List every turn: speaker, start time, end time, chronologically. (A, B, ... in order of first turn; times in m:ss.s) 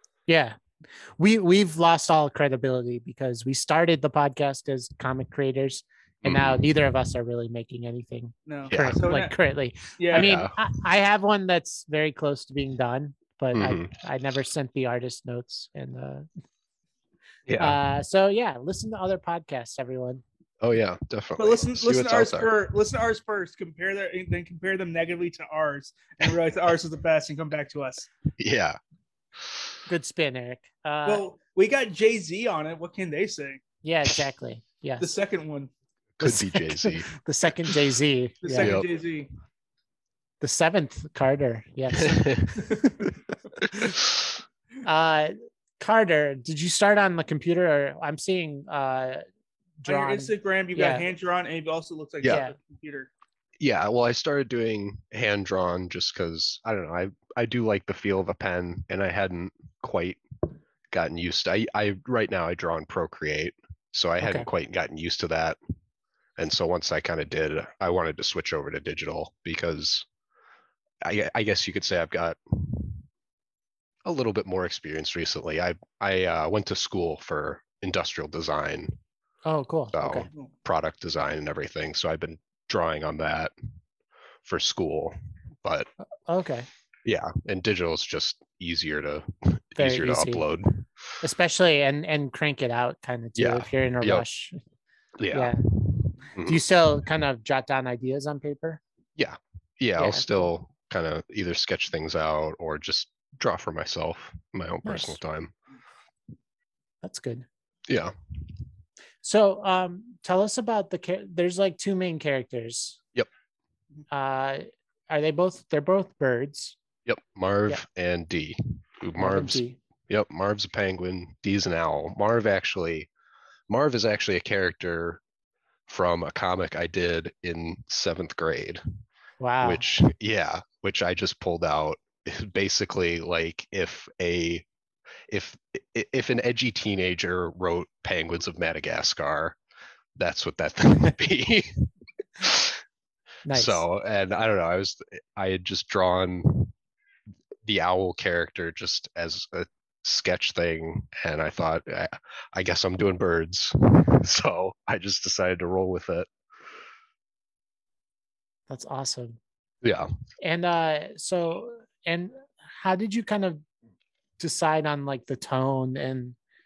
0:00.3-0:00.6 A
0:01.2-0:16.3 A
0:06.2-0:06.7 B
0:08.5-0:09.4 C
0:08.7-0:09.0 B
0:10.0-0:10.3 C
0:10.1-0:10.6 B
0:13.6-0:13.9 B
0:17.5-0:17.8 B
0:17.6-0:20.2 A
0:20.6-0:22.5 B
0:21.4-0:28.1 C
0:28.4-0:28.8 B
0:29.9-0:31.2 A
0:31.1-0:33.6 C
0:33.8-0:35.1 A
0:35.0-0:35.7 C
0:36.2-0:37.1 B
0:36.2-0:38.8 A
0:38.4-0:39.3 C
0:38.6-0:38.9 B
0:40.4-0:43.1 A
0:41.9-0:42.5 B
0:43.6-0:44.3 B
0:44.8-0:49.2 A
0:49.8-0:51.0 A
0:49.9-0:53.1 C
0:52.3-0:52.5 A
0:53.6-1:00.2 B
1:00.9-1:05.6 B
1:04.2-1:04.5 A
1:06.4-1:10.1 B
1:11.0-1:13.0 B
1:14.0-1:19.0 B
1:19.4-1:20.3 A
1:19.9-1:23.5 B
1:24.4-1:25.9 B
1:26.3-1:26.7 A
1:27.0-1:30.8 B
1:29.8-1:30.5 A
1:31.2-1:34.6 A
1:33.4-1:34.2 B
1:35.2-1:36.6 B
1:35.3-1:35.6 A
1:36.4-1:38.8 A
1:39.2-1:45.5 B
1:40.0-1:40.5 A
1:44.8-1:45.2 A
1:47.0-1:47.5 A
1:47.9-1:48.1 B
1:49.2-1:53.0 A
1:54.1-1:56.8 A
1:57.1-2:03.1 B
1:59.2-1:59.8 A
2:03.7-2:05.2 B
2:05.9-2:08.8 B
2:09.4-2:09.8 A
2:09.6-2:14.7 B
2:15.3-2:19.6 B
2:20.2-2:22.8 B
2:23.5-2:23.8 A
2:23.5-2:26.7 B
2:27.6-2:36.3 B
2:38.7-2:39.4 A
2:39.8-2:40.1 B
2:40.4-2:43.6 A
2:44.4-2:46.4 A